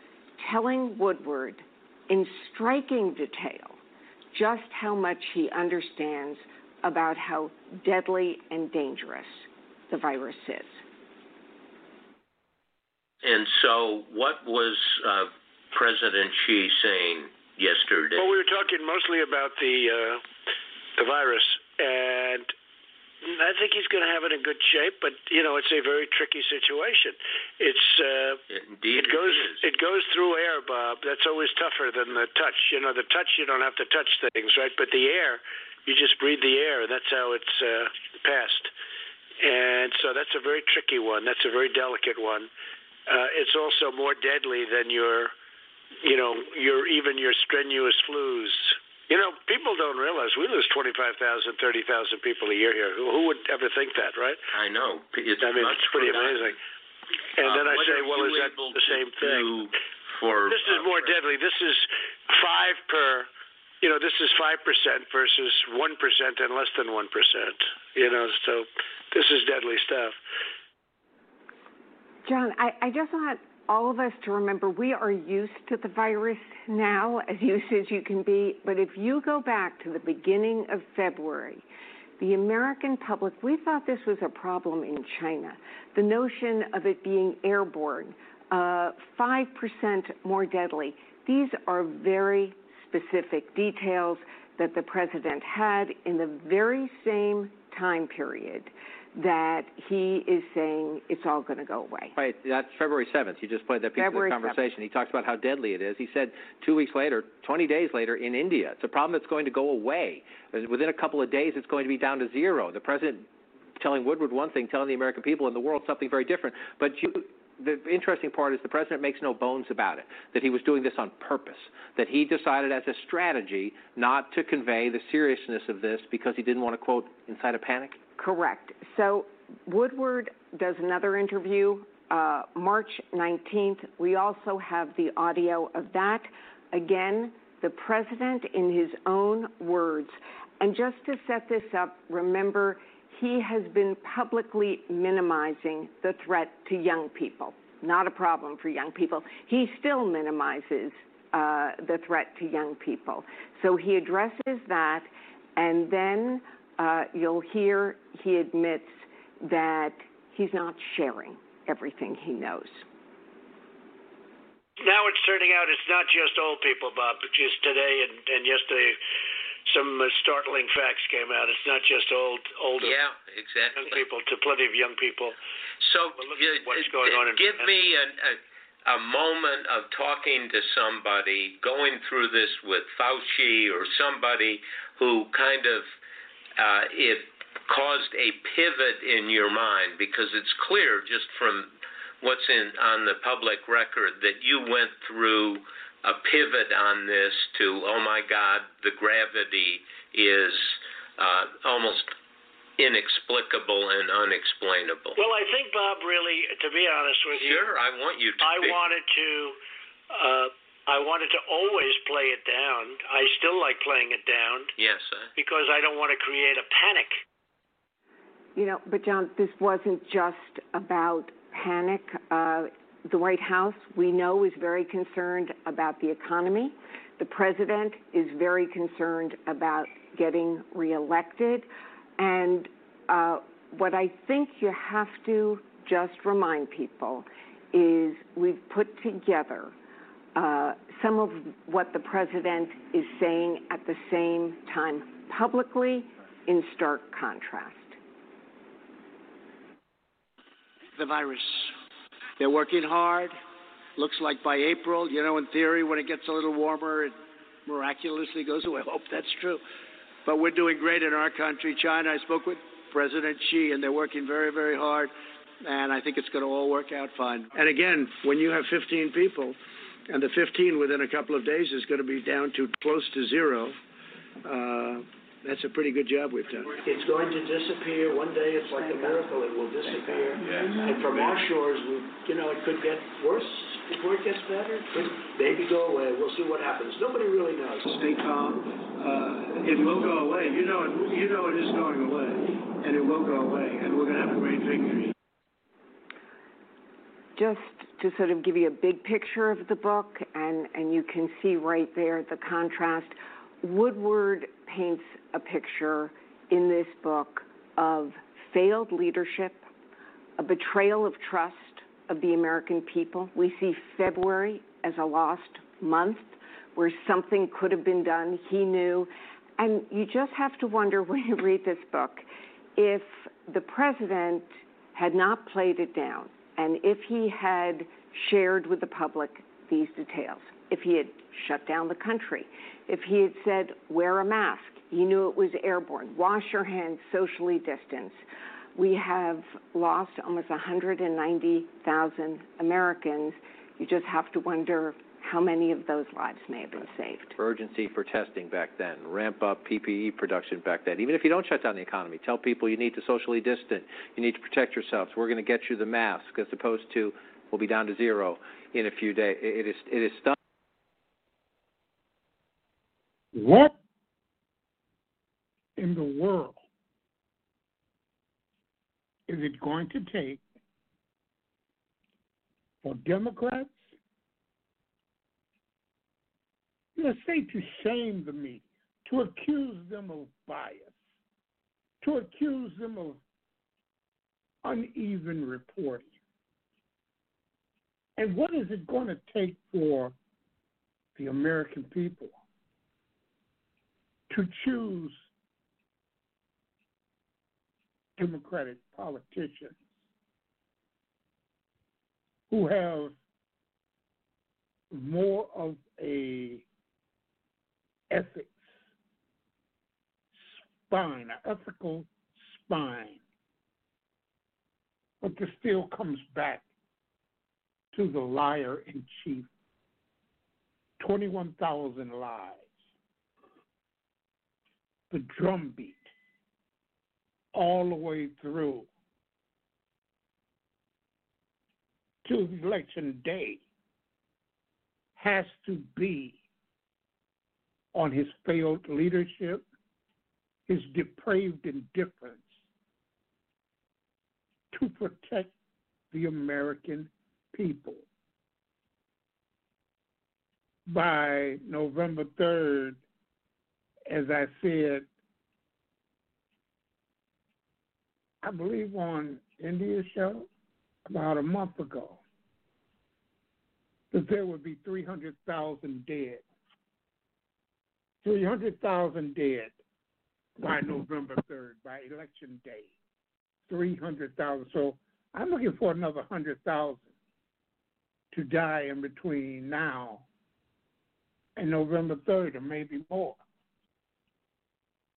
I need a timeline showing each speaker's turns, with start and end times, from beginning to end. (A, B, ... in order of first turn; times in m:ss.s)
0:00.4-0:03.8 A
0:04.3-0:10.8 A
0:13.2-0:18.5 B
0:18.1-0:20.2 C
0:21.0-0:22.5 C
0:23.2-0:28.4 C
0:28.5-0:29.6 B
0:28.9-0:38.7 C
0:39.4-0:42.5 C
0:43.1-0:45.3 C
0:46.0-0:54.4 C
0:54.5-0:56.6 B
0:55.4-0:56.6 C
0:57.4-0:59.6 C
0:57.4-1:01.2 B
1:00.5-1:03.3 C
1:03.8-1:10.2 C
1:12.2-1:21.6 A
1:22.2-1:42.1 A
1:42.1-1:53.3 D
1:44.0-1:44.6 A
1:53.8-2:08.0 D
2:08.2-2:42.8 A
2:44.8-2:49.0 C
2:49.7-2:53.0 C
2:52.8-2:54.0 B
2:53.8-2:55.4 C
2:55.8-3:05.9 B
2:56.2-2:57.7 C
3:06.6-3:22.1 B
3:22.8-3:25.2 B
3:25.2-3:27.8 C
3:27.3-3:28.9 B
3:28.4-3:29.6 C
3:30.1-3:34.7 C
3:34.8-3:35.3 B
3:35.4-3:37.2 C
3:38.6-3:51.7 A
3:52.2-3:59.7 A
4:00.4-4:08.0 A
4:11.0-4:11.7 E
4:12.4-4:13.4 E
4:14.0-4:19.6 E
4:20.2-4:29.6 E
4:30.1-4:33.8 E
4:34.4-4:55.1 E
4:57.4-5:09.6 A
5:10.4-5:38.2 A
5:38.7-5:47.3 A
5:47.3-6:00.4 D
6:03.3-6:03.8 F
6:05.8-6:06.6 F
6:09.3-6:10.4 F
6:12.8-6:13.9 F
6:17.0-6:21.0 F
6:22.0-6:23.2 F
6:24.6-6:26.1 F
6:28.2-6:30.2 F
6:31.2-6:32.4 F
6:34.3-6:35.3 F
6:38.2-6:39.9 F
6:42.5-6:43.1 F
6:44.9-6:46.6 F
6:48.1-6:48.8 F
6:50.3-6:53.2 F
6:55.2-6:56.7 F
6:57.9-6:59.5 F
7:01.0-7:02.8 F
7:05.1-7:06.1 F
7:07.5-7:08.9 F
7:12.2-7:13.6 F
7:15.2-7:16.4 F
7:17.9-7:19.7 F
7:20.7-7:22.6 F
7:24.7-7:25.5 F
7:26.1-7:28.0 F
7:30.9-7:33.0 F
7:34.1-7:35.1 F
7:38.4-7:40.5 F
7:41.1-7:42.2 F
7:44.1-7:46.4 F
7:48.2-7:49.8 F
7:50.6-7:52.9 F
7:53.7-7:57.1 F
7:58.3-8:00.3 F
8:01.6-8:03.4 F